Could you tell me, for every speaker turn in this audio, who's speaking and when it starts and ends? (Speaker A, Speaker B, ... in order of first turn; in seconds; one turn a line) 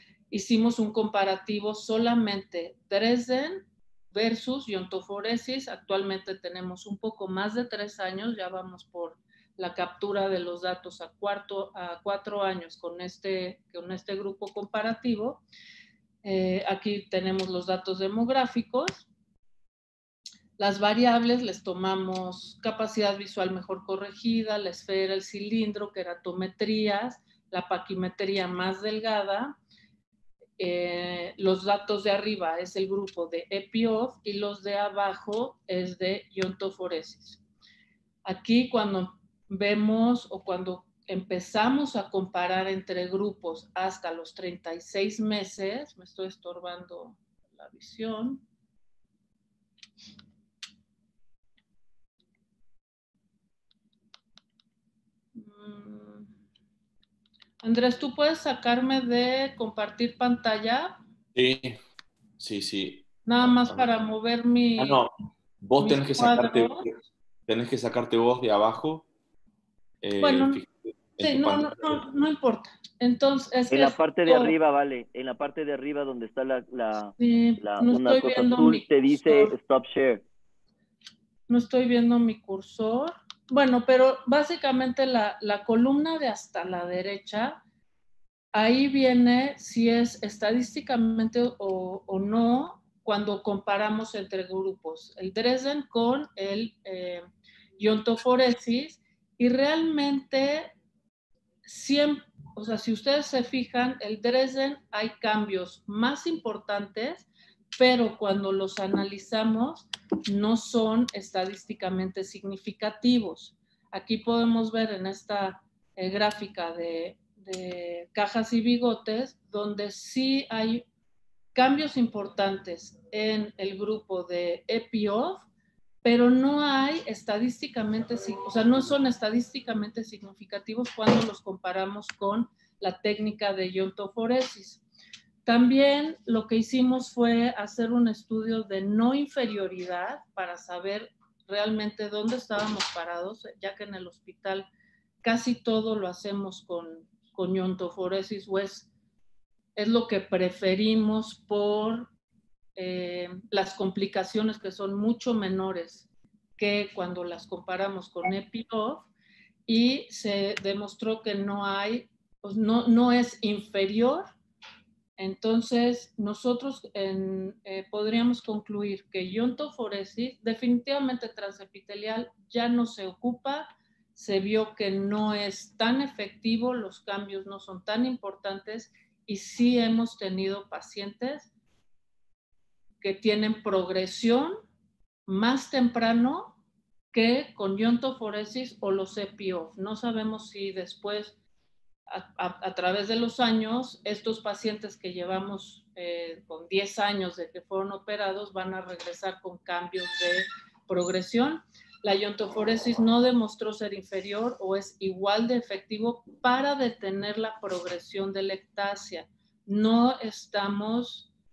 Speaker A: 0.3-15.4
Speaker A: 16.2-19.1
Speaker A: 20.6-29.5
Speaker A: 30.6-37.4
Speaker A: 38.2-48.4
Speaker A: 55.4-56.3
Speaker A: 57.6-61.0
Speaker B: 61.3-61.8
Speaker B: 62.4-63.1
Speaker A: 63.2-65.0
Speaker B: 63.6-64.1
Speaker B: 64.8-69.1
Speaker A: 65.8-66.8
Speaker B: 70.0-72.0
Speaker A: 70.2-70.6
Speaker A: 71.2-74.5
Speaker C: 73.7-80.2
Speaker A: 77.2-79.5
Speaker A: 81.5-87.6
Speaker A: 88.5-97.2
Speaker A: 97.8-100.7
Speaker A: 101.7-120.8
Speaker A: 121.5-125.5
Speaker A: 126.0-134.8
Speaker A: 135.4-144.7
Speaker A: 145.2-148.9
Speaker A: 149.8-152.1
Speaker A: 152.8-156.1
Speaker A: 156.6-159.1
Speaker A: 159.7-164.2
Speaker A: 165.2-181.5
Speaker A: 183.0-184.6
Speaker A: 185.3-186.6
Speaker A: 187.1-191.3
Speaker A: 192.1-211.3